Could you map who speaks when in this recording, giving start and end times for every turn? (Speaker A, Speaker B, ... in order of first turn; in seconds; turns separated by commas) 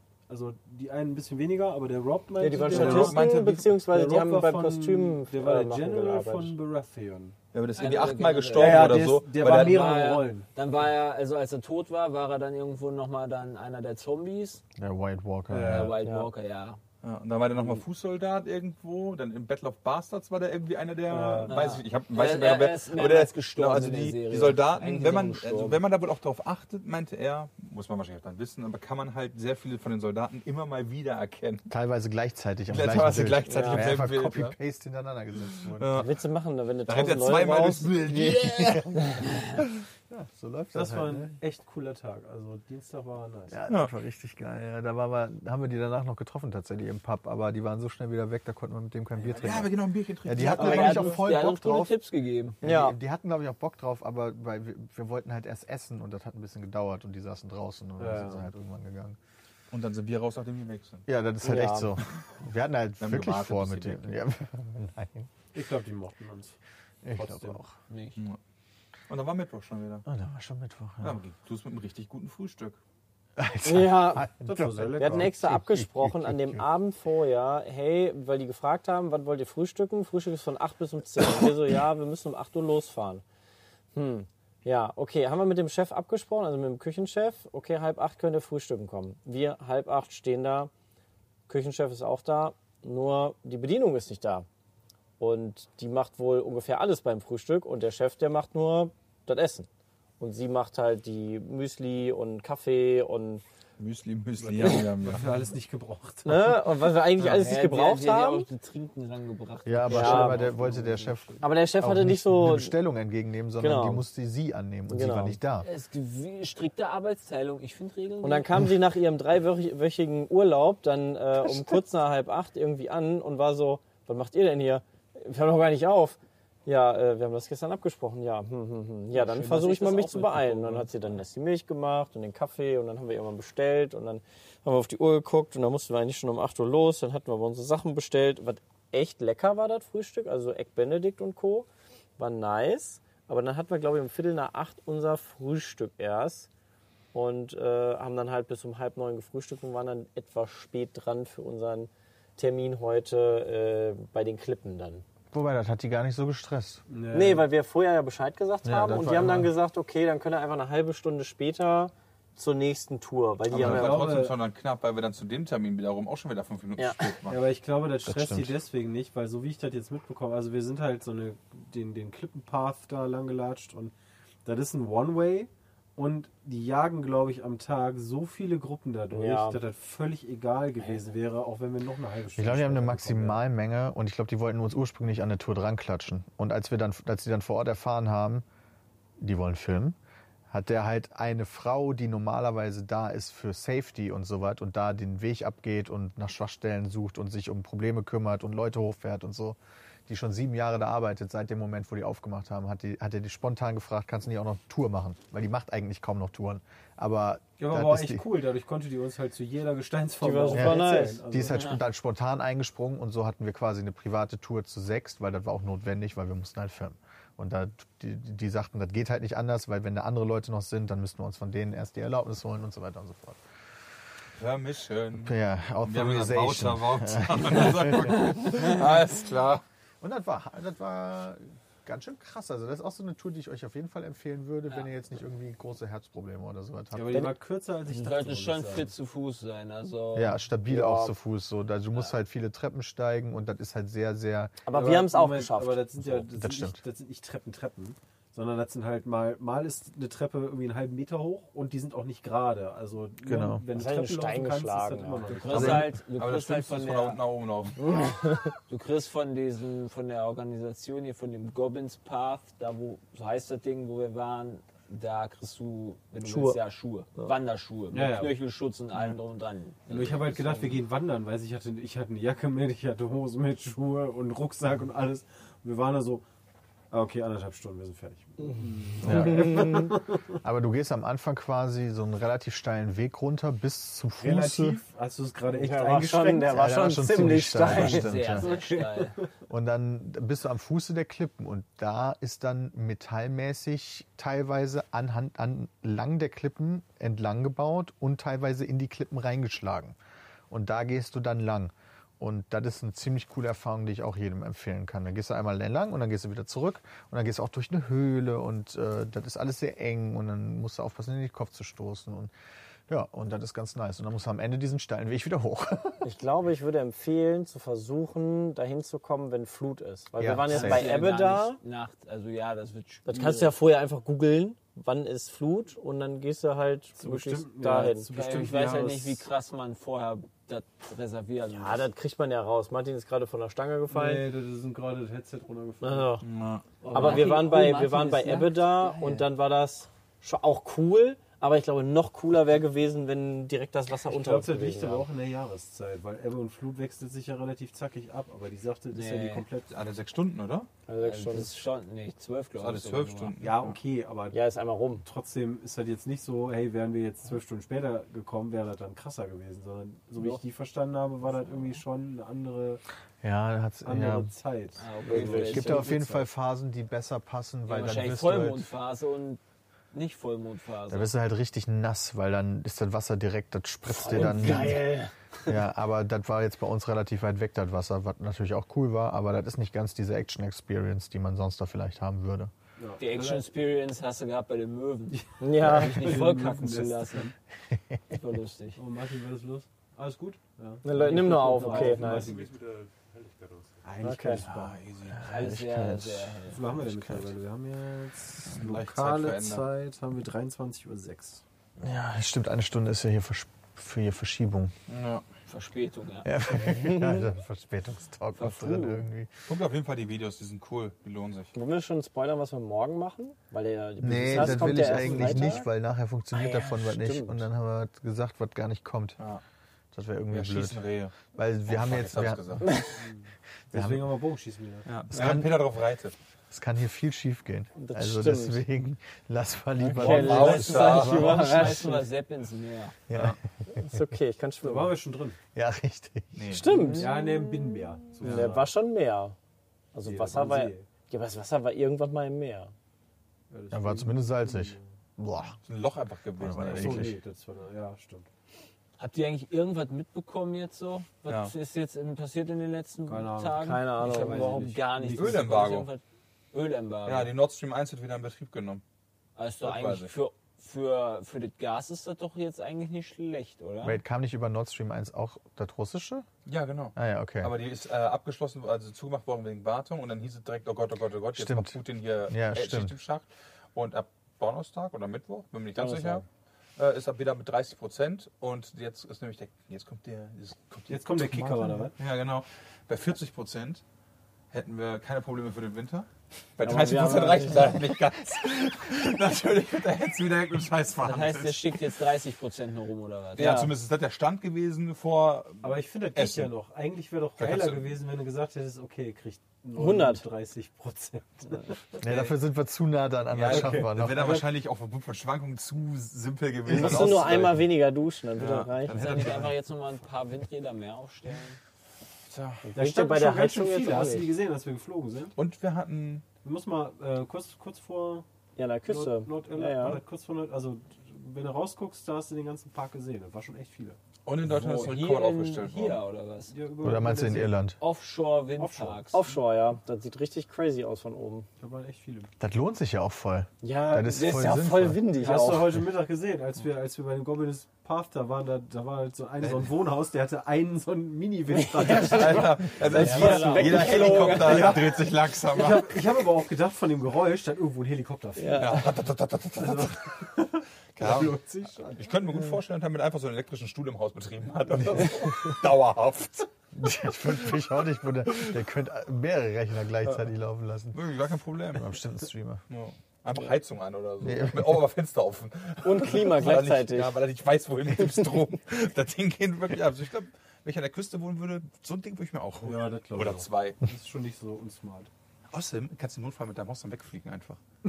Speaker A: 0.3-7.3, Speaker B: 2.4-6.5, Speaker C: 2.6-3.8, Speaker C: 7.5-9.8, Speaker D: 7.8-14.6, Speaker A: 8.5-10.4, Speaker E: 14.8-16.0, Speaker A: 15.5-15.9, Speaker D: 15.5-16.8, Speaker B: 16.0-16.3, Speaker C: 17.0-31.7, Speaker B: 21.1-21.5, Speaker A: 21.1-21.5, Speaker D: 21.4-25.8, Speaker E: 31.7-35.9, Speaker C: 32.7-34.5, Speaker B: 33.5-33.9, Speaker C: 35.5-36.1, Speaker B: 35.9-38.1, Speaker C: 36.9-39.0, Speaker E: 38.1-41.4, Speaker A: 40.7-43.6, Speaker E: 43.5-51.9, Speaker C: 49.3-51.2, Speaker D: 50.3-52.6, Speaker B: 52.6-53.0, Speaker E: 52.6-59.2, Speaker A: 58.0-58.5, Speaker C: 59.7-61.0, Speaker E: 61.1-65.3, Speaker B: 61.4-61.9, Speaker C: 63.0-64.2, Speaker A: 65.5-66.5, Speaker E: 67.0-67.8, Speaker A: 67.2-67.6, Speaker D: 67.9-68.2, Speaker C: 69.1-70.0, Speaker E: 70.0-71.2, Speaker C: 71.0-72.8, Speaker E: 73.4-76.6, Speaker B: 73.6-74.3, Speaker A: 74.4-75.3, Speaker B: 75.0-83.2, Speaker B: 83.9-90.7, Speaker B: 91.5-94.5, Speaker B: 95.2-99.7, Speaker B: 100.2-103.4, Speaker C: 103.8-105.4, Speaker A: 104.4-106.7, Speaker B: 106.2-108.5, Speaker D: 107.2-111.3, Speaker E: 109.6-115.7, Speaker B: 109.9-110.4, Speaker B: 111.4-112.7, Speaker B: 113.6-114.0, Speaker B: 114.9-115.4, Speaker D: 115.6-118.5, Speaker B: 118.2-141.7, Speaker D: 129.1-131.1, Speaker B: 142.2-146.5, Speaker B: 147.1-155.0, Speaker E: 155.3-156.8, Speaker A: 156.9-157.5, Speaker B: 157.1-164.1, Speaker E: 158.6-159.5, Speaker C: 163.5-167.4, Speaker A: 163.6-164.4, Speaker B: 166.8-167.1, Speaker A: 167.3-173.9, Speaker E: 168.0-168.6, Speaker A: 174.4-183.4, Speaker B: 179.1-179.6, Speaker E: 182.3-188.4, Speaker E: 189.2-190.0, Speaker E: 190.5-208.2, Speaker A: 207.6-211.7, Speaker B: 210.2-211.2, Speaker E: 210.5-223.4, Speaker D: 211.5-211.8, Speaker C: 224.4-229.6, Speaker E: 225.2-228.7, Speaker E: 230.0-237.3, Speaker A: 236.9-238.9, Speaker D: 237.9-240.4, Speaker E: 240.1-244.6, Speaker B: 240.7-241.1, Speaker B: 244.6-245.8, Speaker A: 244.7-255.9, Speaker E: 246.0-246.8, Speaker E: 253.2-253.6, Speaker B: 253.7-255.4, Speaker D: 255.3-257.2, Speaker C: 255.5-257.9, Speaker E: 255.5-255.9, Speaker B: 257.8-258.5, Speaker D: 258.7-270.8, Speaker B: 266.2-266.6, Speaker A: 267.9-268.4, Speaker A: 269.9-276.2, Speaker A: 276.9-280.4, Speaker B: 278.4-279.9, Speaker E: 279.0-284.8, Speaker A: 284.2-286.6, Speaker B: 285.5-288.1, Speaker E: 286.4-288.5, Speaker D: 287.6-289.2, Speaker A: 288.3-289.2, Speaker E: 289.5-300.0, Speaker E: 300.5-312.3, Speaker E: 312.9-316.1, Speaker B: 316.0-321.6, Speaker E: 320.2-320.9, Speaker D: 320.4-323.5, Speaker B: 323.1-328.1, Speaker A: 327.0-329.2, Speaker D: 328.1-331.9, Speaker B: 331.5-334.2, Speaker A: 333.9-336.1, Speaker B: 335.8-336.2, Speaker C: 336.2-336.6, Speaker D: 336.8-339.3, Speaker B: 336.9-345.1, Speaker A: 336.9-337.2, Speaker A: 344.1-349.7, Speaker D: 348.9-349.4, Speaker C: 349.7-350.7, Speaker B: 350.9-351.5, Speaker D: 351.0-353.3, Speaker C: 352.6-353.8, Speaker A: 353.4-354.4, Speaker B: 354.3-355.0, Speaker A: 355.0-362.8, Speaker E: 363.2-364.3, Speaker A: 363.8-365.8, Speaker D: 364.8-366.2, Speaker B: 365.1-365.9, Speaker E: 365.2-368.6, Speaker D: 367.7-369.4, Speaker D: 369.9-371.1, Speaker E: 370.9-374.8, Speaker B: 373.9-375.1, Speaker D: 374.1-374.9, Speaker E: 375.5-382.5, Speaker A: 382.8-383.4, Speaker D: 383.0-387.3, Speaker A: 385.1-387.3, Speaker B: 385.4-386.2, Speaker E: 387.7-388.0, Speaker D: 388.1-388.8, Speaker A: 388.8-392.6, Speaker B: 390.8-392.3, Speaker D: 390.9-392.3, Speaker A: 393.8-394.8, Speaker B: 394.0-394.4, Speaker C: 394.4-395.2, Speaker E: 394.5-397.3, Speaker D: 395.2-396.6, Speaker A: 396.4-401.4, Speaker C: 398.5-399.7, Speaker E: 401.8-404.7, Speaker C: 404.9-405.2, Speaker D: 405.5-406.3, Speaker E: 406.2-409.3, Speaker B: 406.6-407.3, Speaker D: 408.4-409.0, Speaker C: 409.5-411.5, Speaker B: 411.5-415.7, Speaker E: 414.0-419.2, Speaker A: 414.4-415.6, Speaker B: 416.3-417.4, Speaker E: 419.9-422.8, Speaker C: 420.3-422.8, Speaker A: 422.9-424.9, Speaker E: 423.7-424.1, Speaker C: 424.9-426.1, Speaker E: 425.1-425.6, Speaker E: 426.5-430.8, Speaker B: 427.8-428.6, Speaker B: 429.9-432.1, Speaker C: 429.9-431.5, Speaker D: 430.3-433.0, Speaker E: 433.1-434.0, Speaker C: 433.1-433.4, Speaker B: 433.7-435.0, Speaker A: 434.6-435.4, Speaker E: 435.5-436.5, Speaker C: 436.3-436.7, Speaker B: 436.4-437.1, Speaker D: 436.6-437.1, Speaker A: 436.9-438.7, Speaker C: 438.2-438.6, Speaker B: 438.2-439.3, Speaker B: 439.9-442.7, Speaker A: 440.1-440.9, Speaker A: 443.5-444.8, Speaker E: 443.7-445.6, Speaker C: 445.6-447.1, Speaker E: 446.4-447.1, Speaker A: 446.6-448.3, Speaker D: 449.0-457.3, Speaker C: 451.3-451.5, Speaker A: 453.1-455.5, Speaker B: 453.5-454.7, Speaker C: 455.1-455.9, Speaker C: 457.0-458.8, Speaker D: 459.4-464.0, Speaker C: 459.6-460.1, Speaker E: 463.8-466.3, Speaker C: 466.4-476.2, Speaker E: 466.9-467.5, Speaker E: 471.3-471.8, Speaker E: 472.3-472.9, Speaker B: 475.7-476.2, Speaker C: 476.8-483.8, Speaker A: 480.9-481.9, Speaker C: 484.5-491.8, Speaker B: 486.6-487.8, Speaker D: 491.0-493.6, Speaker C: 493.4-496.5, Speaker B: 493.4-493.7, Speaker A: 495.6-502.0, Speaker C: 497.4-497.9, Speaker B: 499.8-500.2, Speaker E: 502.0-504.3, Speaker C: 502.0-502.3, Speaker C: 503.3-507.7, Speaker A: 503.4-504.5, Speaker B: 506.6-509.2, Speaker C: 508.4-509.5, Speaker D: 508.9-511.6, Speaker C: 512.3-512.7, Speaker B: 512.7-514.3, Speaker A: 512.7-515.3, Speaker C: 515.4-516.2, Speaker A: 516.4-518.2, Speaker B: 518.6-520.0, Speaker A: 518.9-524.0, Speaker C: 524.2-526.0, Speaker D: 524.5-526.5, Speaker A: 526.5-527.6, Speaker E: 526.8-527.8, Speaker D: 527.8-529.2, Speaker A: 528.6-529.1, Speaker B: 529.1-531.5, Speaker A: 531.6-532.3, Speaker E: 532.4-535.1, Speaker B: 533.6-535.7, Speaker D: 534.1-535.5, Speaker A: 535.1-549.0, Speaker B: 541.5-544.9, Speaker C: 541.9-546.2, Speaker D: 542.9-544.7, Speaker B: 548.4-548.9, Speaker C: 548.5-550.0, Speaker A: 549.5-552.1, Speaker C: 550.9-556.5, Speaker E: 556.7-561.0, Speaker C: 560.9-561.9, Speaker E: 561.7-562.6, Speaker C: 562.7-573.8, Speaker E: 564.2-564.8, Speaker B: 565.8-567.2, Speaker A: 572.6-575.1, Speaker C: 575.5-577.6